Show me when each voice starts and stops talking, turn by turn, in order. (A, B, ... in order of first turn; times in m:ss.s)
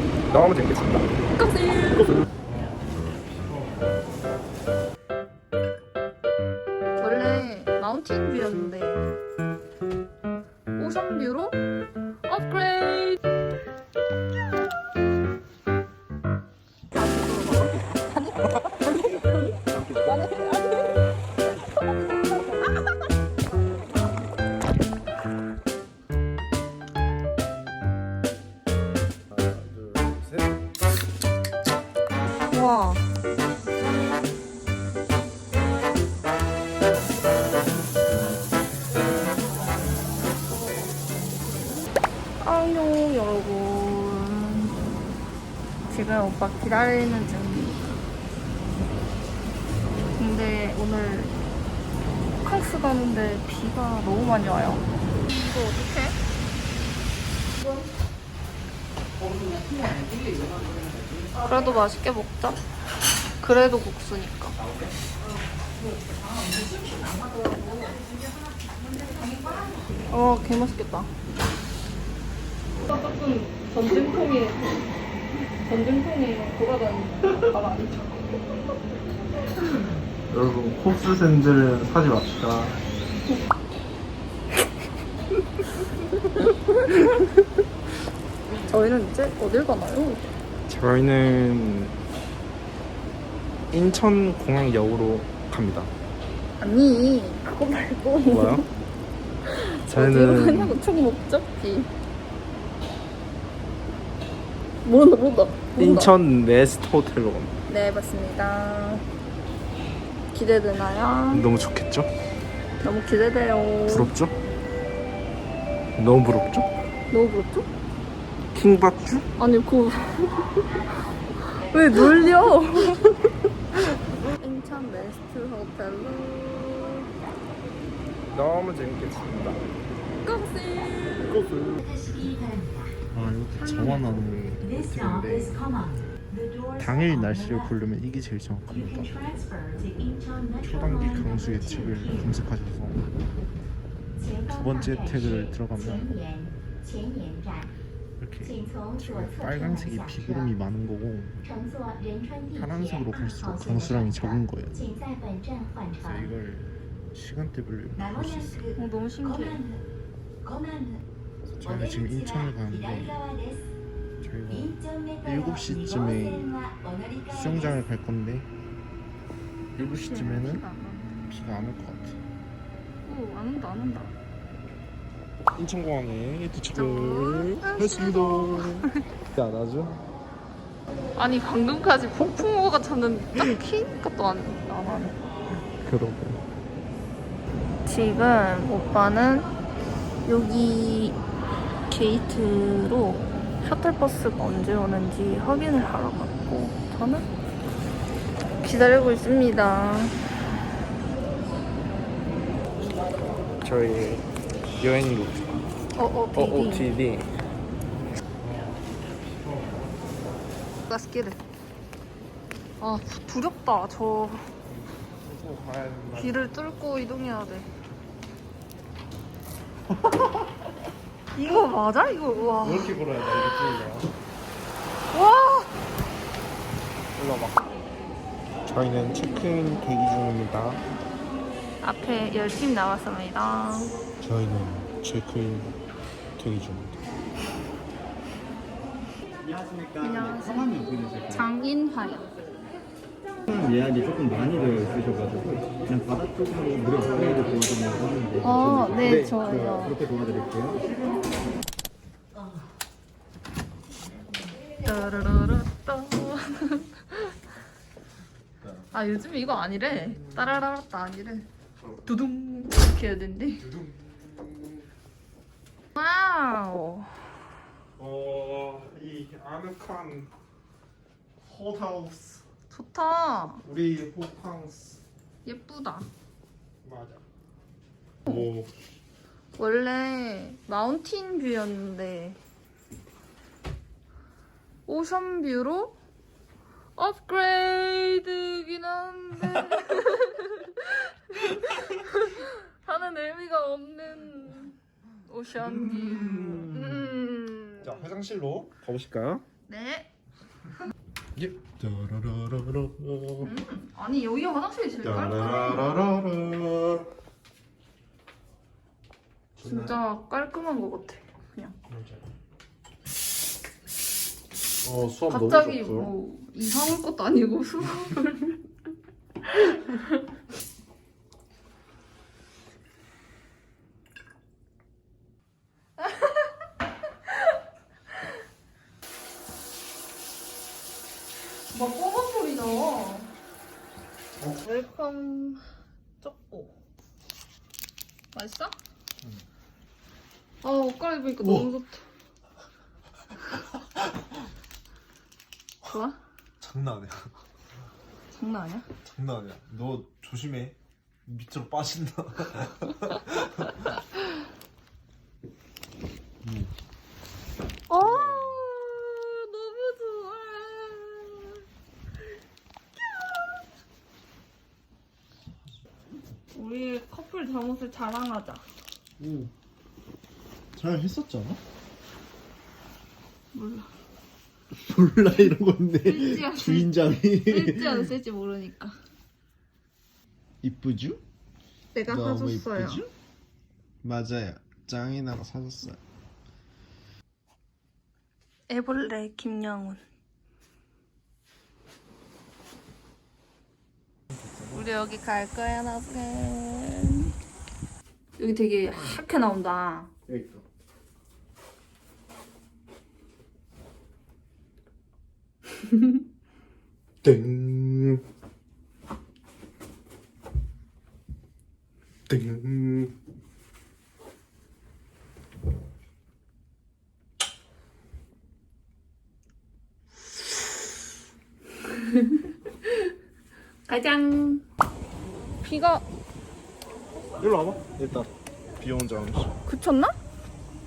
0:00.3-0:01.1 A
0:01.3-0:02.2 B
0:03.3-0:03.8 A
0:07.0-0:09.0 B
0:10.8-0:11.6 B
0:12.3-0:13.2 B
0:16.9-0:19.5 B
0:18.5-0:20.2 A
0:20.0-0:21.0 B
0:29.3-0:30.6 A
0:32.5-0:33.1 B
0:42.4-0:44.7 B
0:45.9-0:48.0 B
0:50.2-0:51.4 B
0:52.4-0:56.2 B
1:01.4-1:02.6 B
1:03.4-1:04.6 B
1:10.1-1:11.1 B
1:12.8-1:14.9 B
1:15.6-1:18.2 B
1:20.3-1:22.8 A
1:28.6-1:30.3 B
1:30.7-1:32.0 A
1:33.7-1:35.9 A
1:36.6-1:38.6 B
1:38.2-1:38.7 A
1:39.4-1:41.9 B
1:39.9-1:40.8 A
1:44.8-1:46.1 B
1:45.8-1:47.5 A
1:47.7-1:49.0 B
1:50.3-1:51.5 B
1:51.3-1:52.1 A
1:52.8-1:54.1 B
1:53.9-1:54.3 A
1:56.0-1:56.7 A
1:57.1-1:57.7 B
1:58.5-1:59.3 A
1:59.4-2:00.7 B
2:01.4-2:03.2 B
2:04.4-2:07.1 B
2:08.3-2:09.6 A
2:10.2-2:11.4 B
2:11.2-2:11.9 A
2:13.1-2:15.9 A
2:13.6-2:14.2 B
2:16.8-2:19.4 A
2:20.5-2:23.1 A
2:24.4-2:26.2 A
2:28.2-2:31.4 A
2:32.5-2:34.9 A
2:35.9-2:38.7 A
2:38.7-2:39.6 B
2:41.5-2:43.2 A
2:44.2-2:46.6 A
2:47.2-2:48.5 A
2:49.7-2:50.6 A
2:49.8-2:51.2 B
2:51.3-2:52.2 A
2:53.0-2:54.2 B
2:55.6-3:00.0 A
2:56.7-2:59.0 B
3:01.2-3:05.2 B
3:05.7-3:06.4 A
3:07.8-3:09.5 B
3:10.2-3:11.2 B
3:11.9-3:17.2 B
3:18.6-3:20.2 B
3:23.6-3:25.7 A
3:25.9-3:26.9 B
3:26.3-3:27.3 A
3:28.4-3:29.9 A
3:30.9-3:31.4 B
3:32.8-3:34.5 B
3:34.7-3:36.5 A
3:36.1-3:37.7 B
3:41.3-3:43.0 B
3:42.6-3:44.2 A
3:45.1-3:45.7 B
3:47.1-3:47.8 A
3:48.6-3:50.8 A
3:51.8-3:53.9 B
3:54.2-3:55.8 A
3:56.4-3:57.0 A
3:59.5-4:01.4 C
4:00.0-4:02.3 B
4:03.5-4:10.8 C
4:08.4-4:10.0 B
4:14.8-4:17.3 B
4:18.6-4:18.9 A
4:18.9-4:21.5 B
4:19.9-4:20.6 A
4:22.0-4:23.6 B
4:23.6-4:24.9 A
4:26.0-4:27.3 B
4:28.0-4:30.3 A
4:31.4-4:32.4 A
4:32.7-4:33.6 B
4:33.6-4:35.0 A
4:35.4-4:36.1 B
4:36.8-4:37.2 A
4:38.2-4:38.8 A
4:39.6-4:42.4 B
4:44.8-4:46.0 B
4:47.0-4:58.1 B
4:55.6-4:57.1 A
4:57.8-4:59.4 A
4:59.7-5:00.1 B
5:01.4-5:03.5 A
5:03.4-5:05.9 B
5:05.0-5:07.1 A
5:09.6-5:10.0 A
5:09.6-5:11.8 B
5:11.9-5:12.3 A
5:14.8-5:16.1 A
5:15.3-5:18.6 B
5:19.4-5:20.2 B
5:26.0-5:26.4 B
5:31.7-5:33.3 B
5:34.6-5:35.6 B
5:36.2-5:36.7 B
5:38.3-5:38.7 B
5:40.6-5:42.0 B
5:41.4-5:41.7 A
5:45.8-5:46.2 B
5:46.6-5:47.3 A
5:48.3-5:48.9 B
5:49.0-5:53.9 A
5:56.4-5:56.7 A
5:57.9-6:01.6 B
5:57.9-5:58.7 A
6:06.5-6:08.7 B
6:09.2-6:09.5 A
6:10.8-6:11.6 A
6:13.5-6:13.9 B
6:14.7-6:18.1 A
6:16.0-6:19.0 B
6:20.6-6:21.2 A
6:21.9-6:23.0 B
6:22.1-6:23.1 A
6:24.0-6:26.0 A
6:28.7-6:30.0 B
6:34.3-6:34.8 A
6:34.7-6:37.3 B
6:38.4-6:40.1 B
6:40.3-6:40.6 A
6:47.2-6:48.2 A
6:52.3-6:53.2 A
7:03.9-7:04.6 B
7:05.6-7:06.0 B
7:07.4-7:09.5 A
7:09.6-7:10.1 B